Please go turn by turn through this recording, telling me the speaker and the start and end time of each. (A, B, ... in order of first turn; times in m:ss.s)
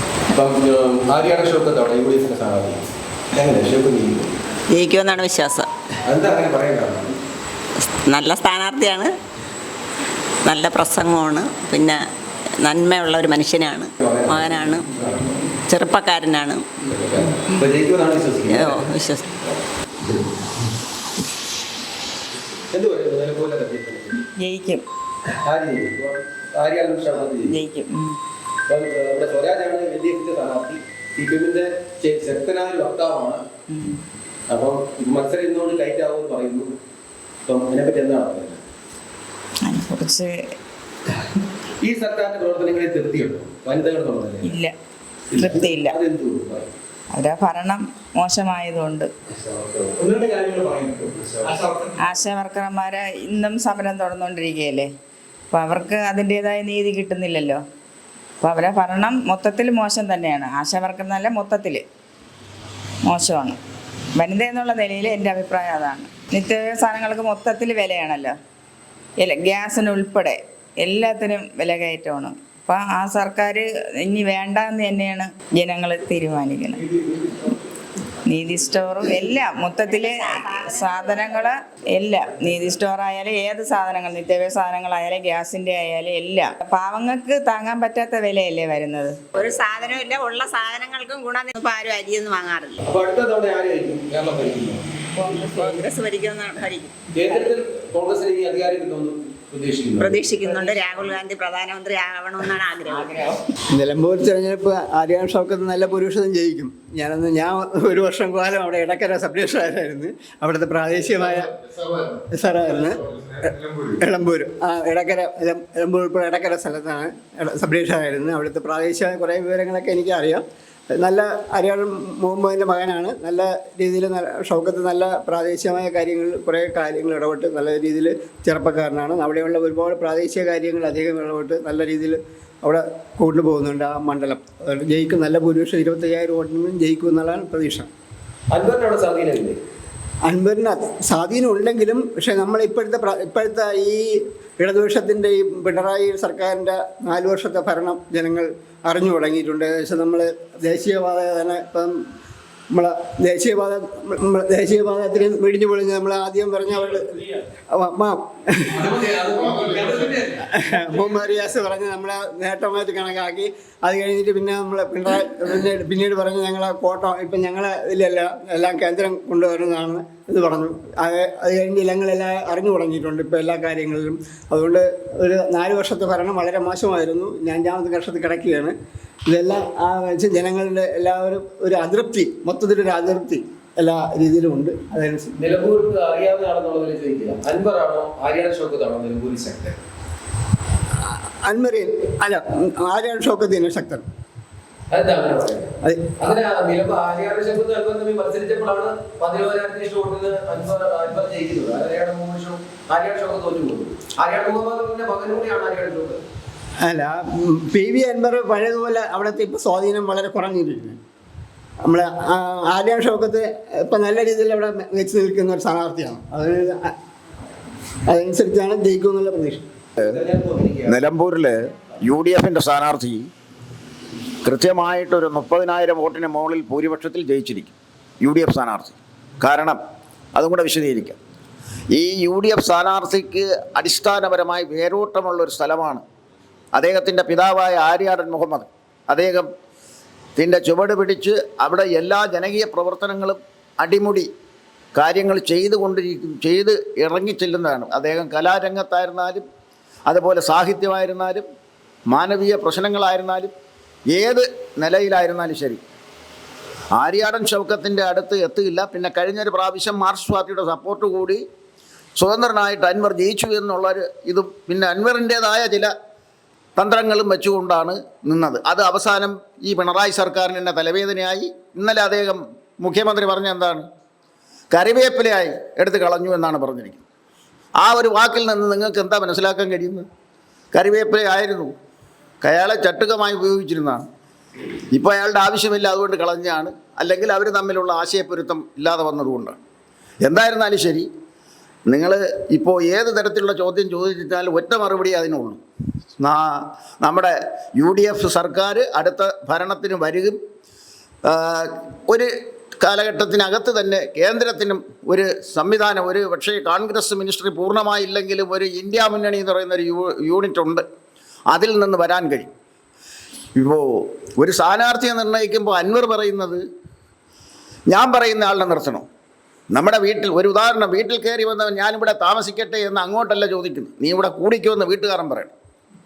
0:00.3-0:04.4 A
0:04.7-0:05.7 B
0:06.1-0:07.1 A
0:07.9-0:09.1 B
0:10.4-0:12.0 B
0:12.6-0:14.8 B
0:14.0-0:15.5 A
0:15.7-0:16.6 B
0:16.9-0:18.9 A
0:18.5-0:19.3 B
0:22.7-0:24.3 A
0:24.3-0:24.8 C
0:25.4-0:27.6 A
0:27.5-0:28.2 C
0:28.7-0:33.5 A
0:33.7-0:34.0 C
0:34.5-0:36.8 A
0:37.4-0:38.6 A
0:39.6-0:40.4 C
0:41.8-0:44.5 A
0:44.4-0:44.7 C
0:45.3-0:46.7 A
0:45.4-0:46.0 C
0:47.1-0:49.1 C
0:49.4-0:51.5 A
0:52.0-0:54.9 C
0:55.5-0:57.6 C
0:58.4-1:01.8 C
1:03.0-1:03.6 C
1:04.2-1:08.4 C
1:09.2-1:16.8 C
1:18.3-1:29.2 C
1:19.9-1:21.5 B
1:29.3-1:32.8 B
1:32.8-1:34.9 A
1:35.1-1:35.9 C
1:35.3-1:36.9 B
1:37.2-1:40.2 A
1:40.0-1:43.4 B
1:40.4-1:40.8 C
1:42.9-1:43.3 C
1:43.7-1:51.5 D
1:52.3-2:17.9 D
2:18.5-2:19.5 A
2:20.2-2:32.0 D
2:32.7-2:58.7 D
2:59.3-3:05.4 D
3:05.4-3:09.8 A
3:11.4-3:14.0 D
3:14.9-3:26.3 A
3:26.8-3:31.0 D
3:31.8-3:36.9 D
3:38.1-3:39.6 D
3:40.0-3:40.3 E
3:40.0-3:41.0 A
3:40.9-3:43.3 E
3:44.4-3:49.8 E
3:50.3-3:51.2 E
3:51.9-3:56.0 E
3:56.7-3:59.5 E
4:00.4-4:04.3 E
4:05.0-4:09.4 E
4:10.1-4:11.4 E
4:12.1-4:13.5 E
4:14.1-4:15.8 E
4:17.0-4:21.4 E
4:22.2-4:25.9 E
4:26.8-4:33.8 E
4:34.7-4:37.0 E
4:37.8-4:40.0 E
4:40.7-4:41.7 E
4:42.4-4:44.1 E
4:44.9-4:49.6 E
4:50.2-4:51.1 E
4:51.9-4:55.6 E
4:56.2-5:00.4 E
5:01.3-5:02.3 E
5:02.8-5:10.8 E
5:11.5-5:12.5 E
5:13.6-5:16.6 E
5:17.9-5:19.1 E
5:19.7-5:25.5 E